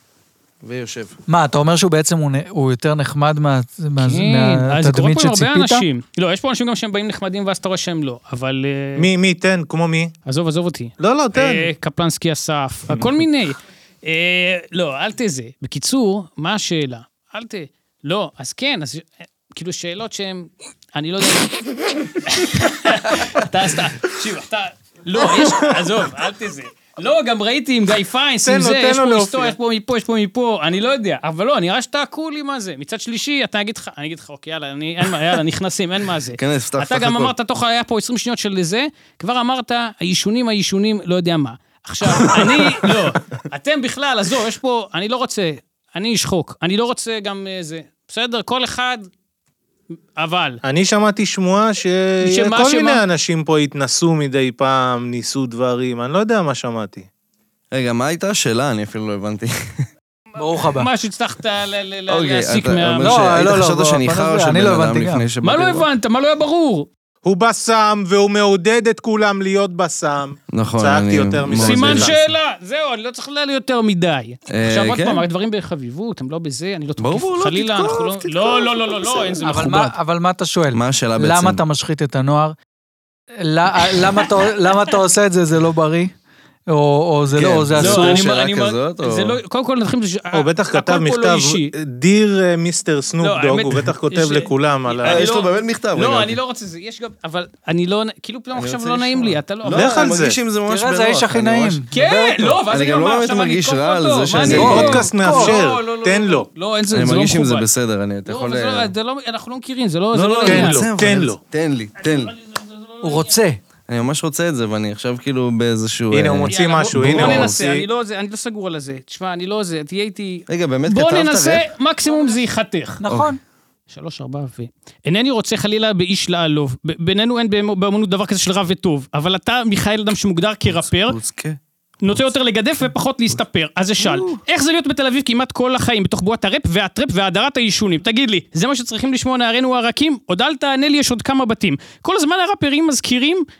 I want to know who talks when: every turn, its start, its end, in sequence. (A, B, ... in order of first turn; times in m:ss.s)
0:00.6-0:01.2 A
0:01.3-0:05.8 B
0:04.0-0:09.1 C
0:09.0-0:10.1 D
0:10.2-0:49.1 C
0:11.0-0:11.7 D
0:25.4-0:25.7 D
0:28.4-0:29.5 D
0:36.3-0:37.3 A
0:50.2-0:50.6 C
0:50.6-0:57.1 D
0:52.2-0:53.0 C
0:57.7-0:59.9 A
1:00.4-1:00.9 B
1:00.6-1:03.2 C
1:02.1-1:05.9 A
1:03.0-1:05.3 B
1:05.4-1:06.9 C
1:07.2-1:12.3 D
1:10.5-1:12.1 A
1:11.5-1:19.9 C
1:14.5-1:15.2 A
1:17.0-1:19.4 A
1:19.4-1:22.6 B
1:20.7-1:21.6 A
1:23.4-1:26.1 B
1:26.7-1:28.3 B
1:27.3-1:29.4 A
1:27.8-1:31.7 C
1:30.3-1:35.3 D
1:33.2-1:40.2 C
1:35.0-1:36.4 A
1:38.5-1:41.8 A
1:39.7-1:40.4 D
1:40.7-1:42.6 B
1:41.9-1:47.7 C
1:42.7-1:45.0 A
1:44.4-1:46.5 D
1:44.4-1:45.6 B
1:46.9-1:48.9 A
1:48.2-1:50.9 C
1:50.1-1:52.3 A
1:50.4-1:51.4 D
1:52.0-1:53.4 C
1:53.0-1:53.6 B
1:53.9-1:57.6 A
1:56.1-1:57.8 D
1:56.5-2:03.0 C
2:00.5-2:01.7 A
2:03.0-2:03.4 B
2:03.0-2:03.4 A
2:03.9-2:11.2 C
2:10.6-2:12.3 A
2:12.0-2:23.4 C
2:14.0-2:14.4 A